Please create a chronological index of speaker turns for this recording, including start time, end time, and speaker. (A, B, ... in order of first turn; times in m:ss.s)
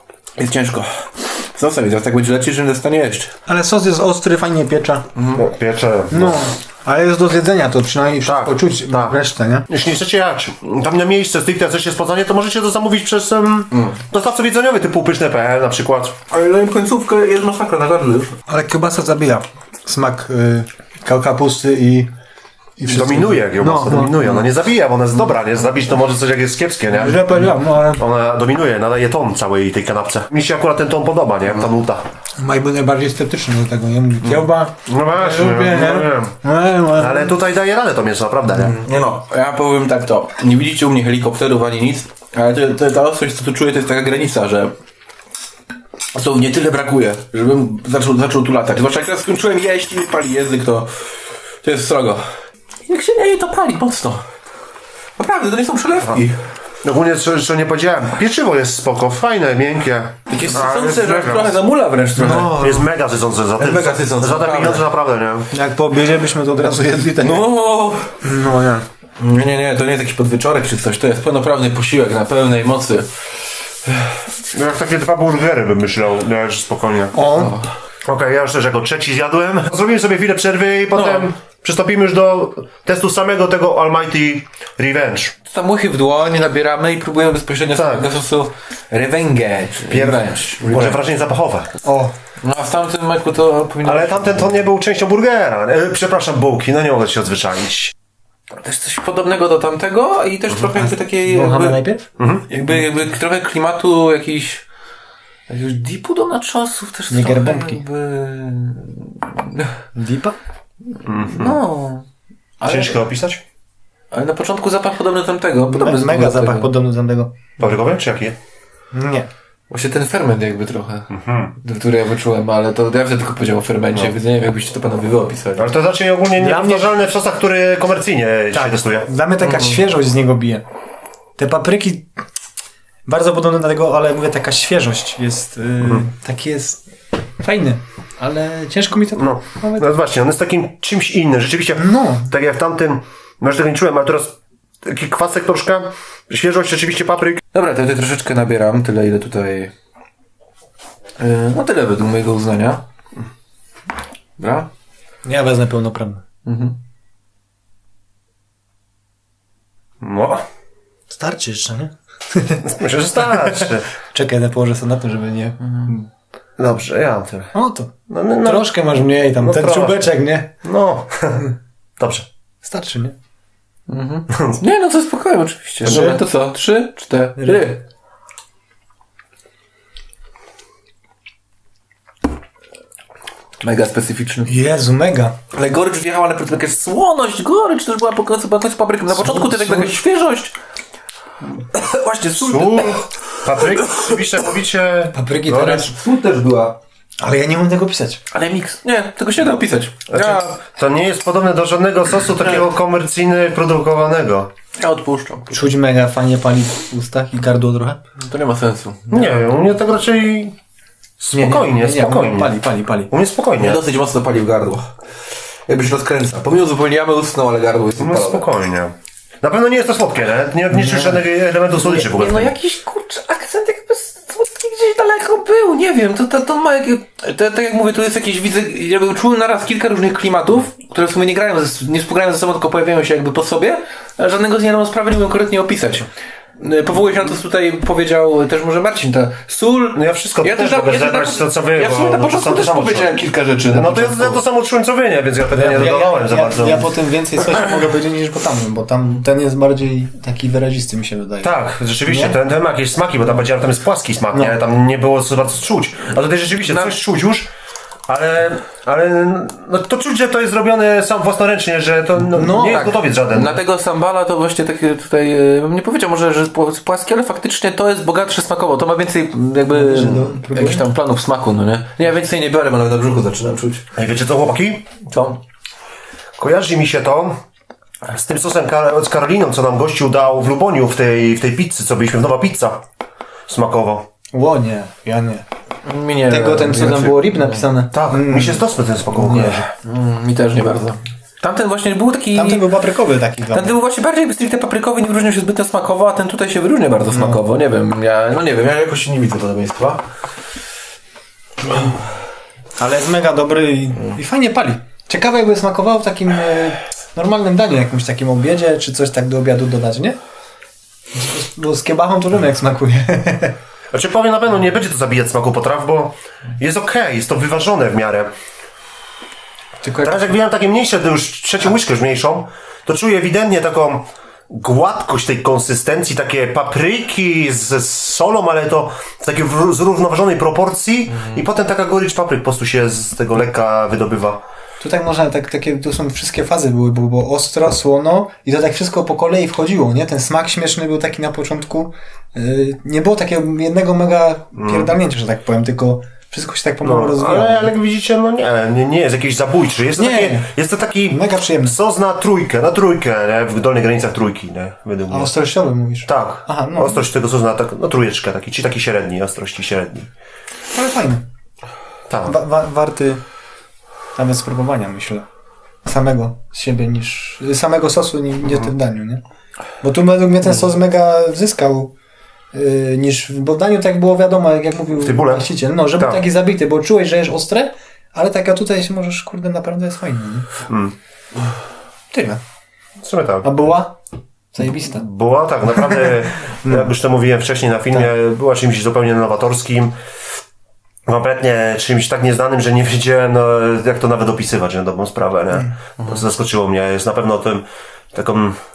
0:00.4-0:03.3 A
0:03.5-0:05.0 B
0:05.2-0:05.4 A
0:05.3-0:06.4 C
0:06.1-0:09.7 B
0:08.2-0:09.2 C
0:09.7-0:16.2 C
0:16.3-0:18.3 A
0:18.5-0:22.1 B
0:22.8-0:24.2 B
0:22.8-0:32.0 C
0:26.9-0:28.0 B
0:32.4-0:37.3 B
0:34.2-0:36.4 C
0:36.9-0:38.8 C
0:38.5-0:44.7 A
0:46.1-0:52.2 A
0:52.9-0:54.2 A
0:55.2-0:56.4 A
0:56.8-1:01.6 C
1:00.3-1:02.8 A
1:02.2-1:02.8 B
1:02.5-1:05.5 C
1:03.6-1:04.9 A
1:05.5-1:07.5 B
1:07.2-1:08.2 A
1:08.2-1:08.8 B
1:09.2-1:13.1 A
1:14.5-1:17.2 C
1:17.1-1:17.6 B
1:17.2-1:17.7 A
1:18.0-1:25.3 C
1:20.9-1:21.3 A
1:25.4-1:31.0 A
1:27.7-1:28.1 C
1:29.8-1:31.7 C
1:31.8-1:32.1 B
1:32.4-1:34.6 A
1:33.8-1:37.9 C
1:38.5-1:41.8 A
1:40.7-1:42.1 B
1:42.2-1:42.4 C
1:42.5-1:44.6 A
1:42.7-1:42.9 B
1:45.5-1:49.7 A
1:47.1-1:47.8 B
1:49.9-1:50.4 B
1:51.0-1:51.6 C
1:51.1-1:52.0 A
1:52.6-1:53.0 A
1:52.6-1:53.4 C
1:54.1-1:56.7 A
1:55.7-1:57.5 B
1:57.6-1:58.4 C
1:58.9-1:59.3 B
1:59.7-2:05.7 A
2:01.1-2:01.5 C
2:05.6-2:09.1 C
2:06.4-2:07.0 B
2:08.5-2:10.6 B
2:09.4-2:09.8 A
2:11.4-2:12.1 B
2:13.1-2:16.8 B
2:15.8-2:16.0 C
2:17.4-2:19.8 B
2:19.1-2:27.4 C
2:21.8-2:22.3 B
2:27.5-2:29.7 A
2:31.2-2:32.8 A
2:34.4-2:34.7 A
2:35.2-2:36.2 B
2:36.4-2:36.8 A
2:40.0-2:40.4 C
2:41.1-2:46.1 B
2:42.6-2:43.9 C
2:46.6-2:47.5 C
2:47.5-2:50.5 B
2:48.1-2:52.2 C
2:52.6-2:53.1 B
2:53.9-2:57.8 A
2:54.3-2:54.6 C
2:55.8-2:56.2 C
2:55.8-2:56.2 B
2:57.4-2:57.6 B
3:03.6-3:04.5 A
3:04.4-3:05.3 B
3:05.5-3:10.5 A
3:09.1-3:10.0 B
3:11.5-3:14.2 A
3:12.3-3:15.8 C
3:15.1-3:15.9 B
3:15.5-3:16.8 A
3:17.2-3:18.2 B
3:18.3-3:20.6 A
3:20.1-3:24.5 C
3:24.8-3:25.6 A
3:25.5-3:28.0 B
3:28.2-3:29.4 A
3:29.1-3:30.5 C
3:31.2-3:33.8 C
3:31.3-3:33.1 B
3:33.6-3:34.9 A
3:35.7-3:38.5 A
3:38.0-3:42.5 C
3:40.7-3:41.2 B
3:41.8-3:56.1 A
3:56.6-4:04.4 A
3:59.9-4:03.2 C
4:03.7-4:06.9 C
4:05.5-4:12.4 B
4:11.4-4:17.5 C
4:14.3-4:14.6 B
4:16.6-4:17.0 A
4:18.1-4:23.6 C
4:22.3-4:23.0 B
4:22.6-4:33.8 A
4:29.7-4:30.9 B
4:34.0-4:34.8 C
4:35.1-4:35.4 A
4:36.4-4:37.4 C
4:38.1-4:42.8 C
4:43.5-4:44.0 C
4:44.3-4:45.4 B
4:45.8-4:47.7 A
4:46.3-4:48.6 B
4:47.9-4:49.7 C
4:49.2-4:52.7 A
4:52.3-4:53.8 B
4:53.5-5:00.0 A
4:57.1-4:57.4 B
5:02.8-5:10.2 B
5:11.1-5:13.5 B
5:13.9-5:18.3 C
5:19.8-5:20.3 B
5:20.0-5:34.4 C
5:34.8-5:47.7 B
5:44.6-5:44.9 C
5:46.8-5:55.3 C
5:50.0-5:50.5 B
5:51.1-5:51.8 B
5:55.1-5:57.0 B
5:56.0-6:00.1 C
6:00.7-6:01.2 B
6:02.1-6:02.4 C
6:02.2-6:03.2 B
6:04.1-6:05.2 B
6:05.8-6:09.2 B
6:09.8-6:11.9 B
6:12.5-6:20.5 B
6:15.0-6:16.2 C
6:20.7-6:20.9 C
6:22.1-6:22.4 B
6:23.0-6:23.5 C
6:23.4-6:24.0 B
6:24.5-6:25.0 B
6:24.7-6:29.9 C
6:26.6-6:26.9 B
6:31.0-6:38.6 C